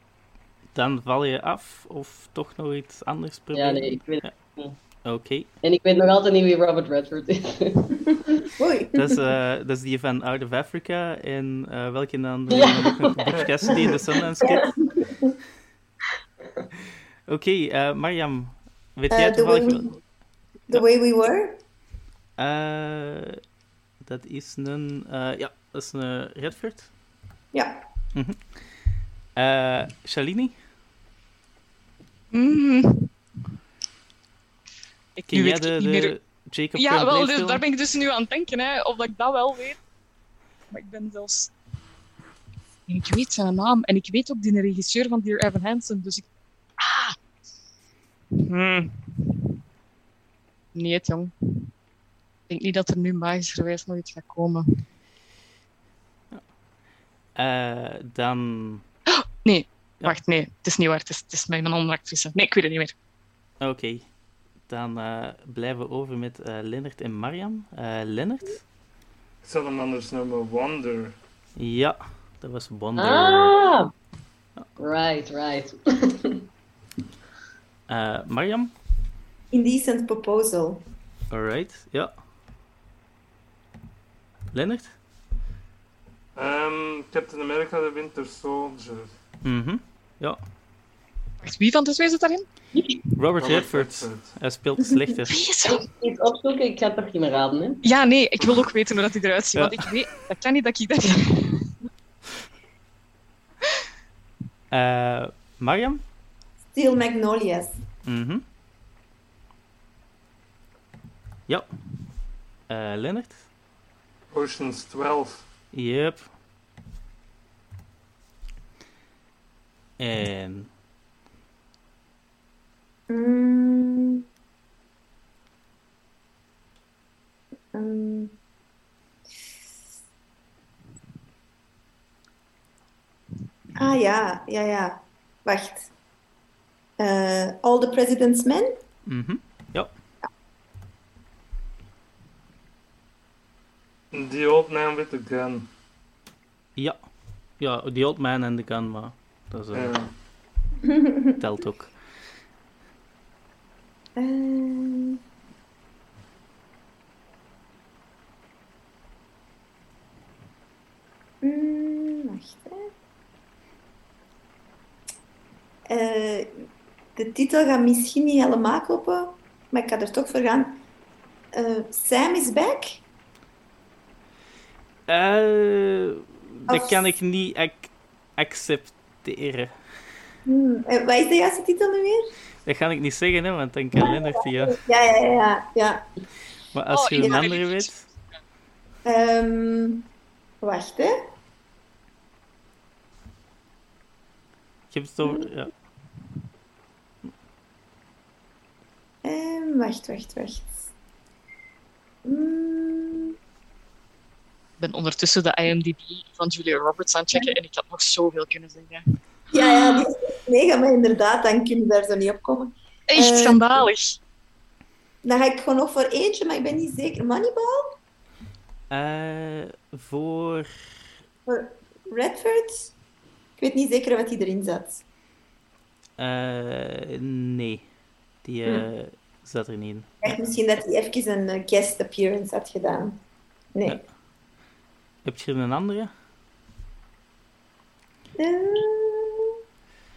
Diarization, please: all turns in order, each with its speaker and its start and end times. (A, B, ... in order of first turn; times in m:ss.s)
0:00.7-0:04.3 A
0:03.5-0:04.8 B
0:05.0-0:05.5 A
0:05.6-0:08.0 B
0:08.5-0:09.2 C
0:08.9-0:14.8 A
0:12.5-0:14.7 B
0:13.3-0:14.0 D
0:14.4-0:15.3 C
0:17.3-0:19.9 A
0:19.1-0:19.9 C
0:20.7-0:21.6 C
0:22.4-0:23.4 A
0:24.0-0:26.9 A
0:27.5-0:27.8 C
0:28.1-0:28.7 A
0:29.4-0:30.6 A
0:32.3-0:33.1 E
0:35.2-0:36.1 E
0:35.3-0:37.6 A
0:36.7-0:39.8 E
0:40.7-0:41.5 E
0:42.9-0:46.2 E
0:46.8-0:47.2 E
0:48.4-0:49.3 E
0:50.7-0:51.3 E
0:52.5-0:54.6 E
0:57.4-0:58.8 A
0:59.1-1:02.9 E
1:03.6-1:04.1 A
1:04.7-1:08.6 A
1:09.4-1:11.2 D
1:11.6-1:13.5 A
1:13.0-1:13.9 B
1:14.8-1:16.5 B
1:17.9-1:18.7 A
1:19.5-1:20.8 C
1:21.3-1:22.1 A
1:24.5-1:24.9 A
1:26.3-1:29.1 D
1:29.4-1:30.4 A
1:31.4-1:33.0 E
1:33.2-1:35.5 A
1:33.4-1:34.3 D
1:34.8-1:35.2 C
1:35.3-1:35.9 E
1:35.6-1:37.8 B
1:37.8-1:41.7 E
1:44.7-1:46.0 A
1:46.7-1:47.8 C
1:48.0-1:48.4 A
1:52.7-1:53.4 A
1:54.3-1:55.5 D
1:55.7-1:56.3 A
2:00.0-2:00.7 A
2:03.1-2:04.2 C
2:07.7-2:08.3 C
2:13.8-2:15.9 C
2:17.0-2:18.7 C
2:19.0-2:19.9 A
2:24.1-2:25.7 D
2:27.6-2:29.9 A
2:29.7-2:30.1 D
2:30.8-2:31.4 C
2:31.4-2:32.0 A
2:34.2-2:35.2 C
2:41.4-2:42.9 C
2:45.9-2:46.6 C
2:47.2-2:50.8 C
2:51.5-2:53.0 C
2:55.1-2:59.7 A
2:56.7-2:57.1 C
3:00.4-3:02.3 C
3:02.6-3:04.8 A
3:04.0-3:06.0 C
3:06.7-3:08.0 A
3:06.9-3:08.4 E
3:07.2-3:07.5 C
3:09.0-3:10.0 C
3:10.6-3:11.1 C
3:14.9-3:15.7 A
3:19.2-3:20.9 C
3:22.2-3:23.3 C
3:24.8-3:29.0 E
3:29.5-3:33.8 C
3:33.1-3:34.2 E
3:35.2-3:37.9 C
3:38.9-3:40.7 A
3:41.4-3:42.9 C
3:43.6-3:45.0 C
3:46.2-3:47.8 A
3:48.4-3:50.3 A
3:50.2-3:53.2 C
3:53.7-3:54.0 C
3:55.2-3:56.1 A
3:58.4-3:59.5 C